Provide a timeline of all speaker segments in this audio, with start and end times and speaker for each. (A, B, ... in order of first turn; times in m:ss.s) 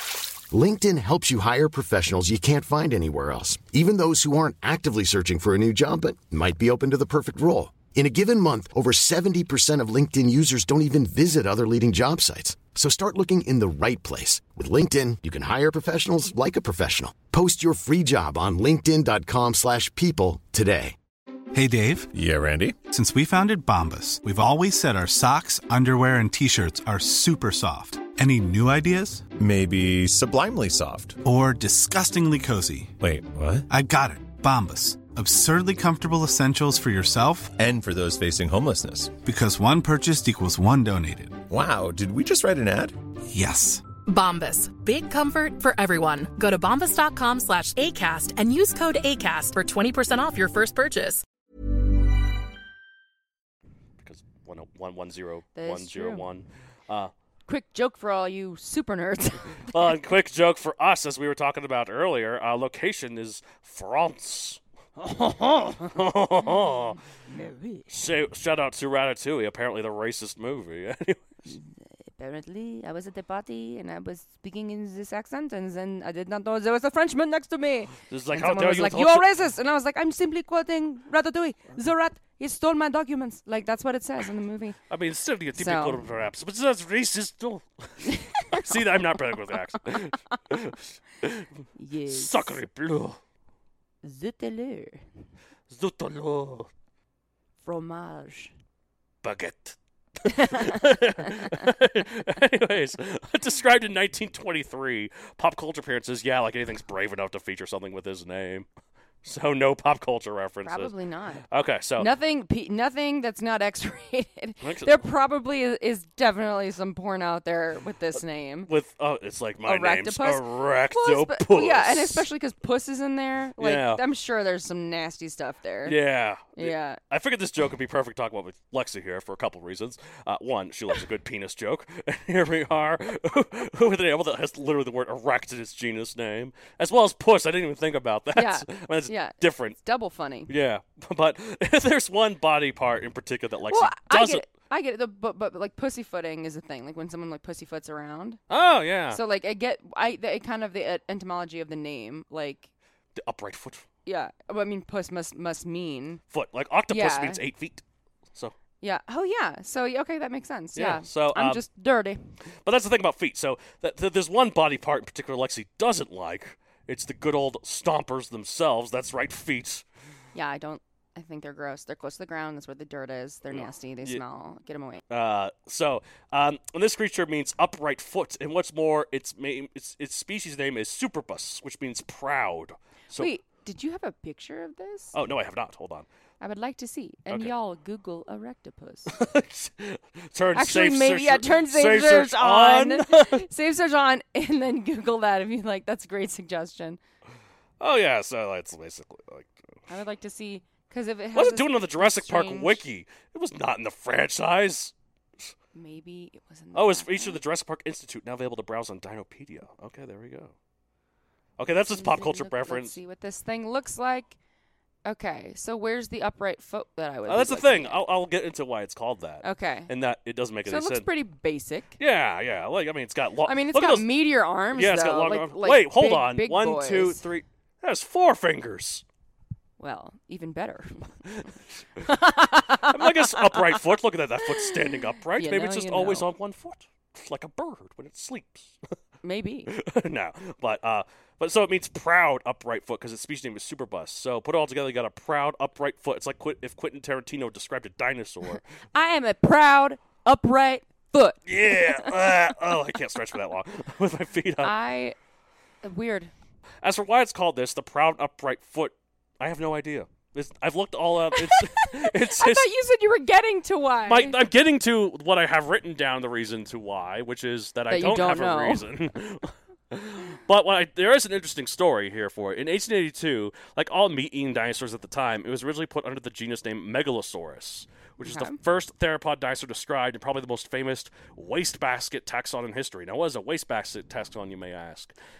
0:00.5-0:21.0 A
0:21.5-0:22.1 B
0:22.1-0:22.8 C
0:22.9-0:29.3 B
0:29.4-0:31.2 C
0:31.2-0:33.0 B
0:33.0-0:33.7 C
0:33.7-0:37.5 B
0:37.6-0:39.1 C
0:39.2-0:41.4 B
0:41.5-0:42.9 C
0:43.3-0:43.8 B
0:44.0-0:51.2 D
0:54.0-0:57.1 E
0:55.6-0:56.2 F
0:57.5-0:59.7 F
0:59.7-1:07.0 E
1:05.6-1:05.9 F
1:06.5-1:06.7 F
1:07.3-1:07.9 F
1:07.9-1:11.3 E
1:11.5-1:24.8 F
1:18.1-1:19.3 E
1:24.9-1:31.5 E
1:25.6-1:26.0 F
1:28.0-1:28.9 F
1:31.8-1:32.6 F
1:32.1-1:33.2 E
1:34.0-1:35.0 F
1:35.7-1:36.7 E
1:37.6-1:38.5 F
1:39.2-1:48.7 E
1:40.3-1:41.6 F
1:49.2-1:50.9 E
1:50.6-1:51.4 F
1:51.5-1:52.1 E
1:52.0-1:58.7 F
1:54.6-1:55.0 E
1:58.7-2:02.2 E
1:59.6-2:06.0 F
2:03.6-2:04.0 E
2:05.8-2:19.8 E
2:06.5-2:07.0 F
2:18.3-2:20.5 F
2:20.5-2:24.5 E
2:23.7-2:28.4 F
2:28.5-2:29.2 E
2:29.1-2:32.7 F
2:33.2-2:33.8 E
2:34.0-2:36.2 F
2:36.3-2:37.8 E
2:36.9-2:37.4 F
2:38.8-2:42.3 F
2:40.7-2:41.6 E
2:42.6-2:49.8 E
2:50.3-2:55.0 F
2:53.5-2:54.2 E
2:55.1-3:03.3 E
3:03.2-3:05.1 F
3:05.1-3:06.1 E
3:06.4-3:09.1 F
3:09.1-3:13.4 E
3:10.5-3:17.0 F
3:17.8-3:19.6 E
3:19.9-3:22.8 F
3:21.3-3:25.5 E
3:25.7-3:27.4 F
3:26.7-3:30.5 E
3:31.6-3:33.0 E
3:31.9-3:34.4 F
3:35.0-3:38.0 F
3:37.3-3:41.1 E
3:39.4-3:39.9 F
3:40.6-3:42.0 F
3:42.0-3:44.1 E
3:43.4-3:47.2 F
3:44.7-3:49.0 E
3:49.8-3:51.2 F
3:52.0-3:53.8 F
3:52.8-3:58.8 E
3:54.4-3:56.3 F
3:59.2-3:59.7 F
3:59.7-4:08.6 E
4:08.9-4:12.1 F
4:11.4-4:14.7 E
4:14.6-4:15.2 F
4:15.8-4:16.3 F
4:16.8-4:22.7 E
4:21.3-4:24.4 F
4:24.0-4:45.1 E
4:27.9-4:28.8 F
4:38.2-4:38.6 F